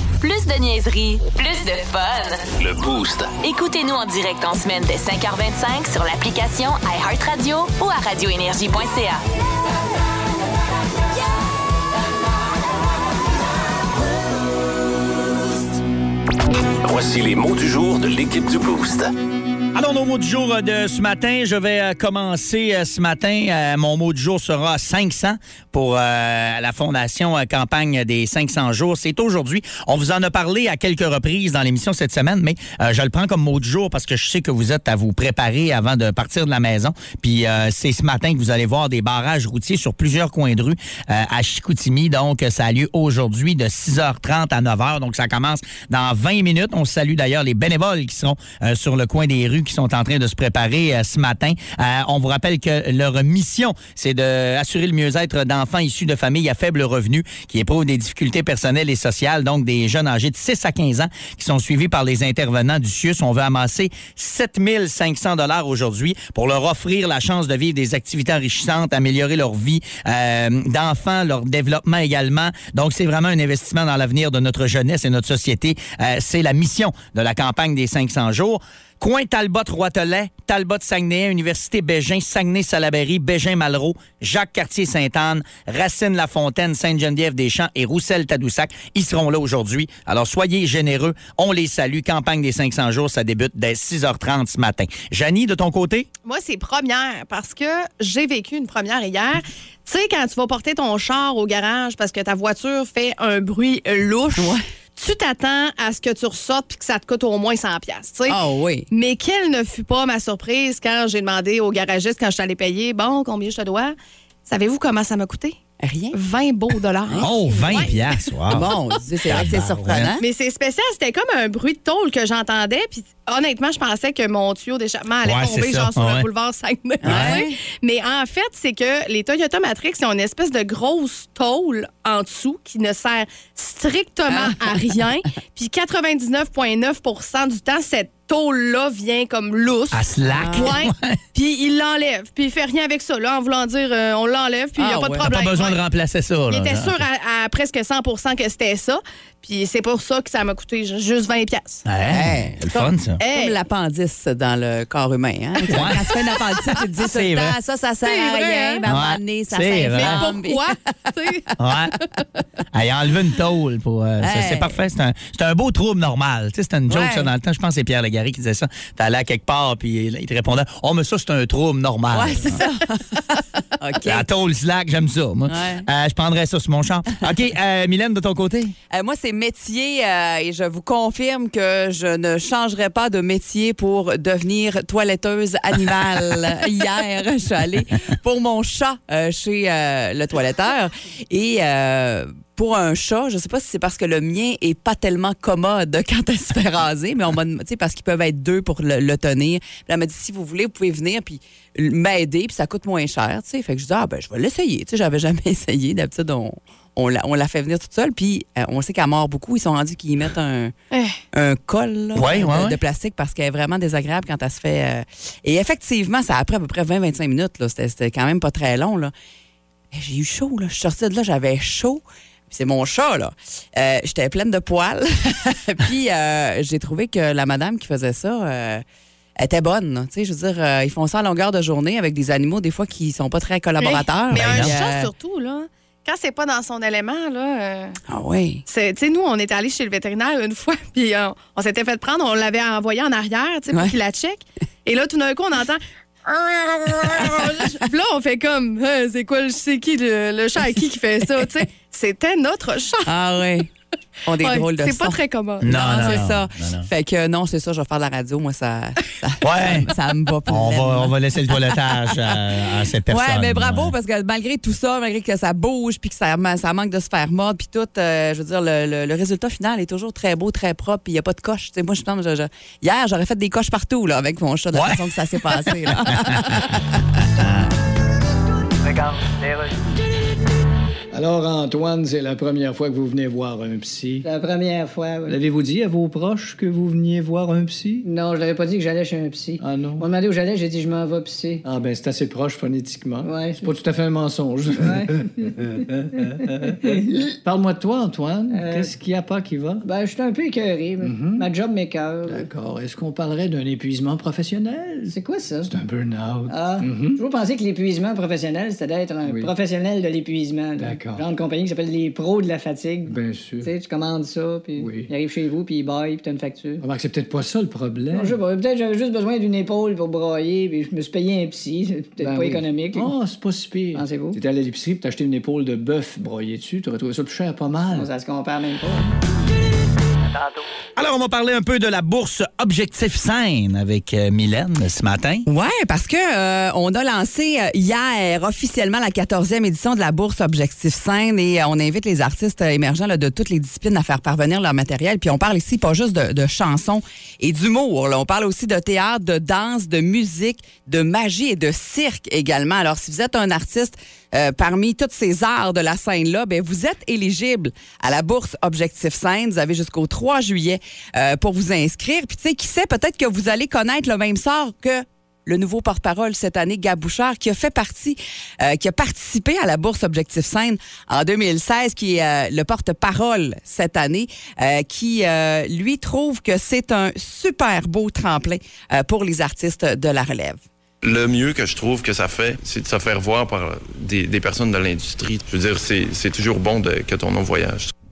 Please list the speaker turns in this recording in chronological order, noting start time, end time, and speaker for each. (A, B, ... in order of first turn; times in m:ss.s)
0:00.2-0:02.5 A
0:02.6-0:03.3 B
0:03.4-0:09.2 A
0:16.8-0:19.1 B
0:19.7-1:36.1 C
1:36.2-1:48.4 D
1:44.4-1:44.6 E
1:48.3-1:48.9 E
1:48.9-1:55.6 D
1:55.8-1:56.2 E
1:56.1-1:58.3 D
1:57.2-1:58.7 C
1:58.5-2:00.2 E
1:59.2-2:00.1 C
2:00.2-2:25.8 D
2:05.2-2:06.3 C
2:07.0-2:07.6 E
2:07.0-2:07.4 C
2:14.3-2:14.8 E
2:19.9-2:21.2 C
2:20.3-2:20.7 E
2:24.8-2:25.2 E
2:25.2-2:27.0 C
2:26.5-2:31.8 D
2:31.8-2:33.2 C
2:32.1-2:40.6 E
2:33.2-2:33.6 D
2:35.6-2:36.1 C
2:37.1-2:37.6 C
2:38.0-2:38.8 D
2:38.8-2:40.3 C
2:40.0-2:41.5 D
2:41.6-2:41.9 C
2:42.7-2:52.6 C
2:44.2-2:44.8 E
2:46.9-2:47.3 E
2:52.1-2:54.2 E
2:54.0-2:58.7 C
2:55.5-2:55.9 E
2:58.9-3:30.7 E
3:30.9-3:31.2 D
3:31.3-3:39.1 E
3:32.1-3:32.8 C
3:39.9-3:48.8 E
3:49.4-3:55.1 E
3:53.8-3:58.0 D
3:54.3-3:54.7 C
3:58.1-3:58.6 E
3:58.6-4:13.1 D
4:13.0-4:13.7 E
4:14.3-4:22.5 E
4:14.4-4:16.2 D
4:15.6-4:16.9 C
4:19.4-4:19.9 C
4:20.5-4:23.9 C
4:23.1-4:37.0 E
4:34.7-4:35.0 C
4:35.6-4:36.6 C
4:37.4-4:37.7 C
4:41.1-4:44.2 F
4:44.2-4:45.3 G
4:45.2-4:48.1 F
4:48.0-4:51.6 G
4:49.6-4:50.0 F
4:51.6-4:59.8 F
4:53.2-4:53.7 G
4:54.8-4:55.8 G
4:56.7-4:57.3 G
4:58.5-4:58.9 G
4:59.8-5:02.4 G
5:01.0-5:01.5 F
5:02.3-5:07.2 F
5:05.1-5:05.7 G
5:06.5-5:16.8 G
5:09.2-5:09.5 F
5:10.8-5:11.2 F
5:13.1-5:13.7 F
5:14.8-5:15.1 F
5:16.8-5:18.4 F
5:18.1-5:23.1 G
5:22.2-5:28.1 F
5:23.9-5:24.4 G
5:27.9-5:29.1 G
5:31.0-5:35.4 C
5:35.4-6:20.6 E
6:21.0-6:27.9 H